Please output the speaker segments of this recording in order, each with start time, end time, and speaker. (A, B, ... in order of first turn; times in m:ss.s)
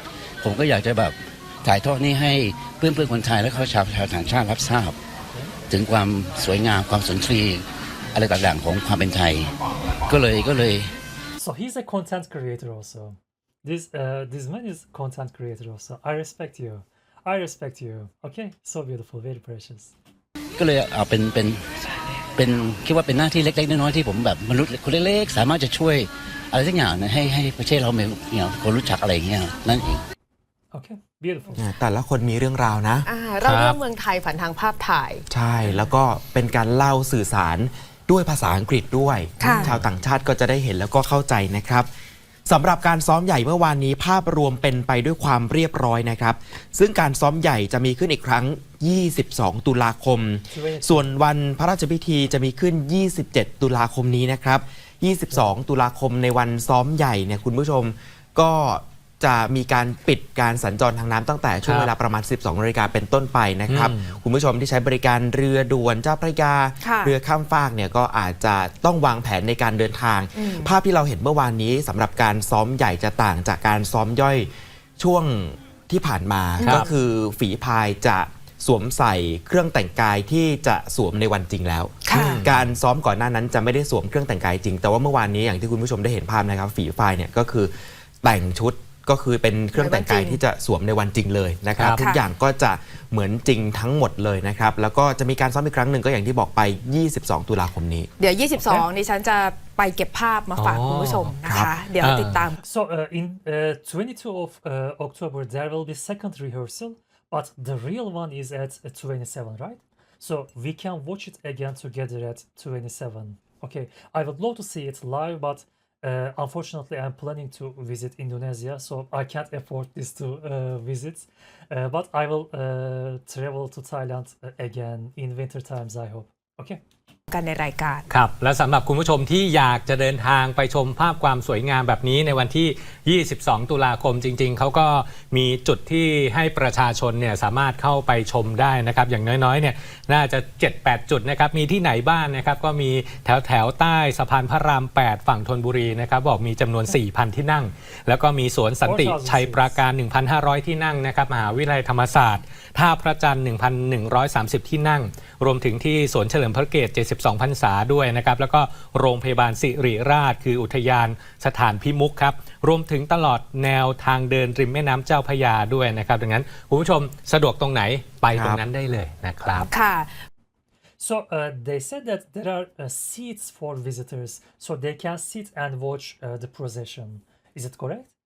0:00.4-0:05.0 A
0:05.7-0:09.5 A
0:10.1-0:10.9 A
0:11.4-0:19.9 B
0:20.6-0:21.6 A
0:22.4-0:30.0 A
0:30.7-0:31.6 B
0:31.6-0:33.1 C
0:33.0-0:35.2 D
0:33.4-0:33.8 E
0:35.3-0:41.9 C
0:39.4-0:39.8 D
0:42.5-1:38.1 C
0:50.5-0:51.1 B
1:01.6-1:01.9 E
1:03.7-1:04.2 E
1:06.8-1:07.1 D
1:10.4-1:10.7 D
1:16.6-1:16.9 D
1:16.6-1:16.9 E
1:22.0-1:22.4 D
1:22.1-1:22.5 E
1:29.8-1:30.4 D
1:31.8-1:32.0 E
1:31.9-1:32.2 D
1:38.2-1:42.6 D
1:38.6-1:38.8 B
1:40.5-1:42.5 E
1:41.4-1:41.7 C
1:42.6-2:06.8 B
2:07.3-2:08.0 D
2:08.1-2:49.7 E
2:28.8-2:29.8 B
2:48.3-2:48.6 C
2:49.5-2:50.1 D
2:51.0-2:58.1 B